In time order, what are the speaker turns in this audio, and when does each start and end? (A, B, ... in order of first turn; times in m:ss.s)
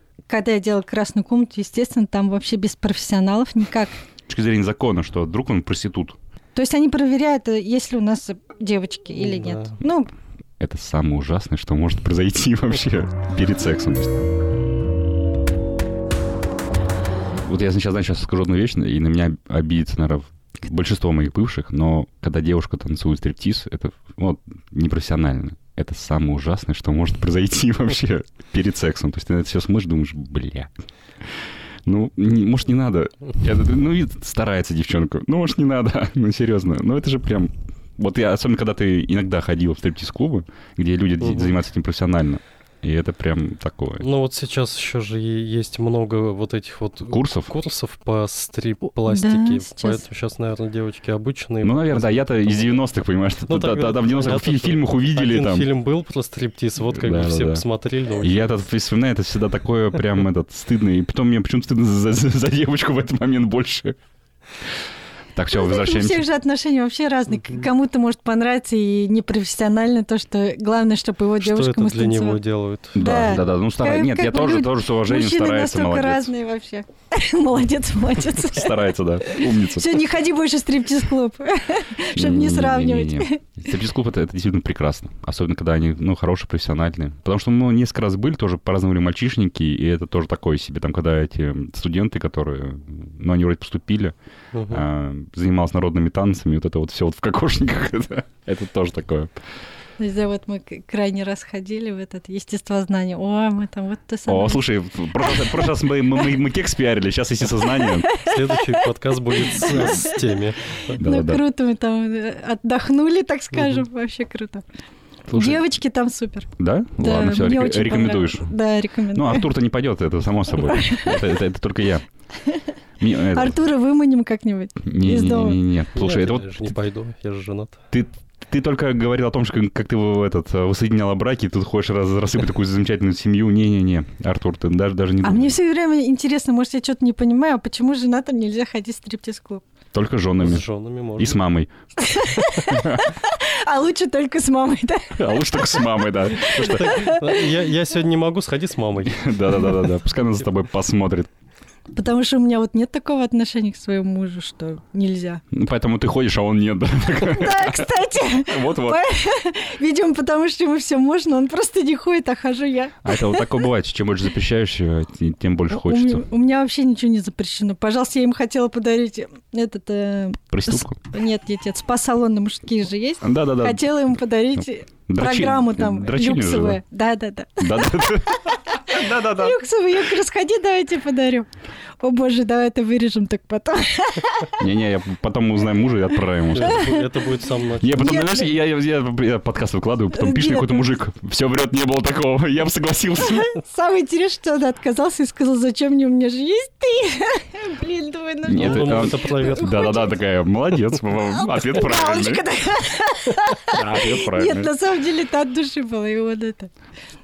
0:00.3-0:03.9 A
0:04.3-0:06.2 B
0:06.6-0:10.1 A
0:09.2-0:09.8 C
0:10.6-0:14.2 B
0:17.4-0:30.7 B
0:31.2-0:44.0 B
0:41.2-0:41.5 C
0:44.0-0:52.7 C
0:47.1-0:47.5 B
0:49.1-0:50.0 A
0:51.6-0:55.7 B
0:53.5-0:58.5 C
0:56.9-0:57.6 B
0:58.2-1:04.0 B
1:05.3-1:06.2 B
1:05.5-1:12.4 A
1:11.4-1:13.4 C
1:13.0-1:16.3 B
1:13.0-1:23.4 A
1:18.4-1:20.0 B
1:22.2-1:34.2 B
1:34.5-1:34.8 C
1:34.7-1:39.3 B
1:40.0-1:44.6 A
1:44.3-1:48.1 B
1:45.2-1:45.7 A
1:47.6-1:48.9 A
1:48.2-1:51.0 C
1:49.4-1:50.2 A
1:49.6-1:50.0 B
1:51.0-1:51.4 B
1:51.0-1:54.6 A
1:53.6-1:53.8 C
1:55.3-1:55.6 B
1:55.3-1:56.5 A
1:56.6-1:58.5 B
1:57.0-1:59.4 A
1:59.1-2:02.0 B
2:00.7-2:01.2 A
2:03.0-2:03.6 B
2:03.3-2:05.6 A
2:04.8-2:06.6 B
2:05.9-2:07.8 C
2:07.9-2:15.6 B
2:15.2-2:19.6 A
2:19.9-2:20.7 B
2:20.4-2:21.4 C
2:21.2-2:21.7 B
2:22.0-2:25.8 A
2:22.7-2:23.0 B
2:25.2-2:26.9 B
2:26.4-2:27.4 A
2:26.5-2:29.7 C
2:29.1-2:31.3 B
2:31.9-2:35.4 A
2:35.5-2:39.0 B
2:37.2-2:43.5 A
2:43.0-2:46.2 B
2:45.7-3:01.5 A
2:50.5-2:51.0 B
2:53.2-2:53.8 B
2:55.1-2:56.8 B
2:57.6-2:59.6 B
3:02.0-3:04.6 A
3:04.6-3:06.9 B
3:06.5-3:08.4 C
3:06.6-3:07.1 A
3:07.8-3:13.5 B
3:08.0-3:08.5 A
3:10.1-3:10.9 A
3:13.2-3:20.1 A
3:18.5-3:22.4 B
3:18.5-3:20.0 C
3:21.3-3:26.7 A
3:23.7-3:24.7 B